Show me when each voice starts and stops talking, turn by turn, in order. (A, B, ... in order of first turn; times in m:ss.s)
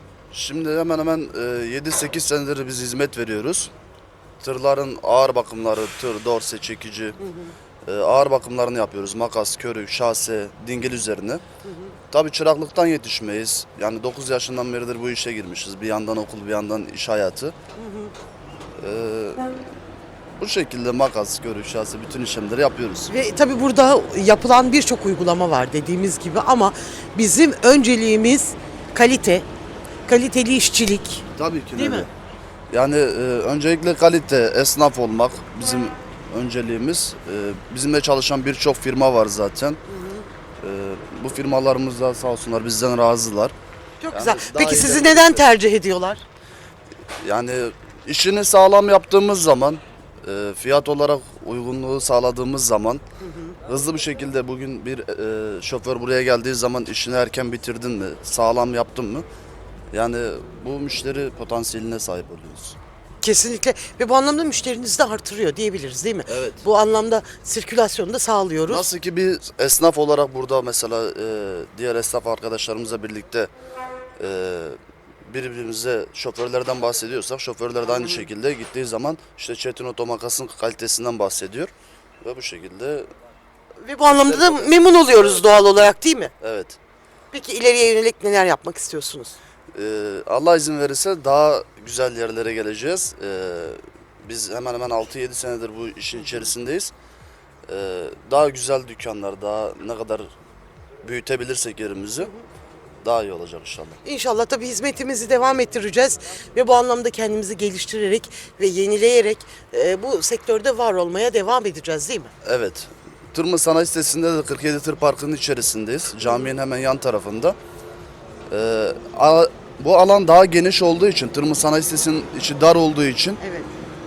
0:00.3-0:03.7 A
0:04.4-0:07.2 A
0:07.2-0:07.5 B
0:07.8-0:11.4 A
0:11.6-0:12.0 B
0:12.1-0:17.6 A
0:17.8-0:18.1 B
0:18.8-0:19.5 A
0:20.4-0:23.1 A
0:23.1-0:29.5 B
0:30.1-0:31.2 B
0:31.4-0:32.1 A
0:31.8-0:32.1 B
0:32.7-0:39.8 A
0:39.9-0:40.3 B
0:40.6-0:43.5 A
0:44.0-0:46.2 B
0:44.1-0:45.5 A
0:47.2-0:53.0 A
0:53.2-0:53.5 B
0:53.7-0:59.2 A
0:59.9-1:02.8 A
1:03.2-1:08.9 B
1:06.3-1:06.6 A
1:08.7-1:13.5 A
1:14.2-1:23.1 A
1:17.9-1:18.3 B
1:23.8-1:26.3 B
1:24.1-1:25.5 A
1:26.4-1:26.8 A
1:27.3-1:29.4 B
1:29.7-1:36.9 A
1:36.2-1:36.5 B
1:37.7-1:40.3 A
1:41.0-1:42.3 A
1:43.0-1:44.0 A
1:44.0-1:52.3 B
1:52.4-1:57.6 A
1:56.2-1:56.5 B
1:58.5-2:03.4 A
2:03.4-2:03.7 B